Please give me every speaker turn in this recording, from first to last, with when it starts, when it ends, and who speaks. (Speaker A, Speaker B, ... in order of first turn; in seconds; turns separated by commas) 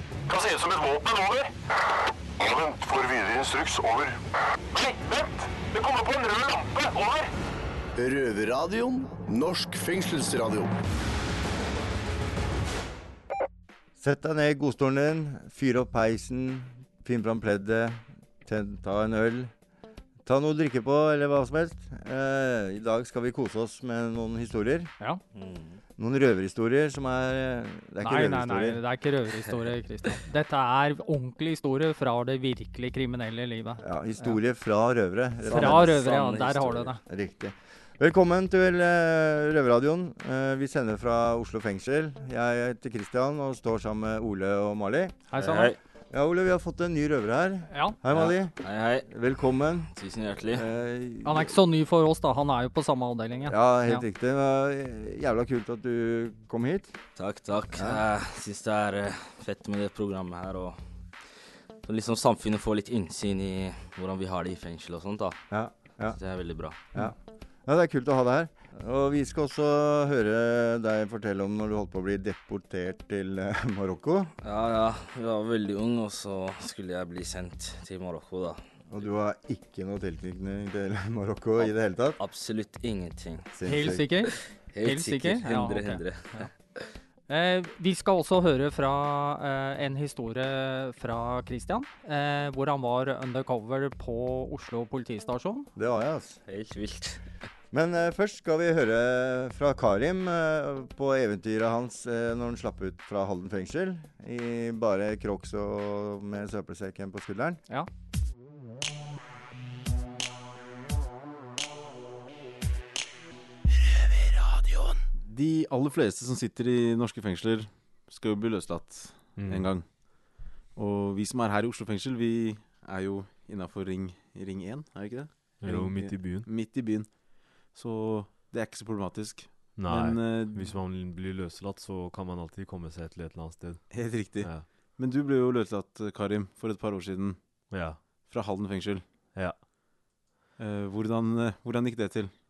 Speaker A: 0.3-1.5, Speaker A: 2.4-4.2, Speaker A: 4.7-7.3, Speaker B: 8.0-10.7, Speaker C: 14.0-19.5, Speaker C: 20.2-24.9, Speaker D: 25.3-25.8, Speaker C: 26.0-28.8, Speaker E: 28.0-34.4, Speaker C: 33.8-36.1, Speaker D: 35.5-37.0, Speaker E: 35.5-37.0, Speaker C: 37.0-45.2, Speaker E: 45.3-45.7, Speaker D: 45.4-45.8, Speaker C: 46.1-49.9, Speaker E: 47.7-48.0, Speaker D: 48.1-49.1, Speaker D: 49.9-50.6, Speaker C: 50.5-51.6, Speaker E: 51.2-54.0, Speaker C: 53.5-57.0, Speaker D: 57.2-60.8, Speaker C: 57.7-58.0, Speaker D: 61.8-65.4, Speaker C: 65.5-66.2, Speaker D: 66.1-66.8, Speaker C: 66.9-74.3, Speaker D: 74.4-79.0, Speaker C: 78.9-82.2, Speaker D: 81.6-83.5, Speaker C: 83.5-84.3, Speaker E: 83.7-86.5, Speaker D: 84.3-86.9, Speaker E: 87.3-95.7, Speaker C: 95.8-96.4, Speaker D: 96.5-97.2, Speaker C: 97.7-107.6, Speaker F: 115.2-130.8, Speaker G: 119.4-119.7, Speaker G: 125.6-126.5, Speaker G: 129.8-134.7, Speaker F: 133.9-139.1, Speaker G: 137.7-138.1, Speaker G: 139.3-139.6, Speaker F: 140.6-142.3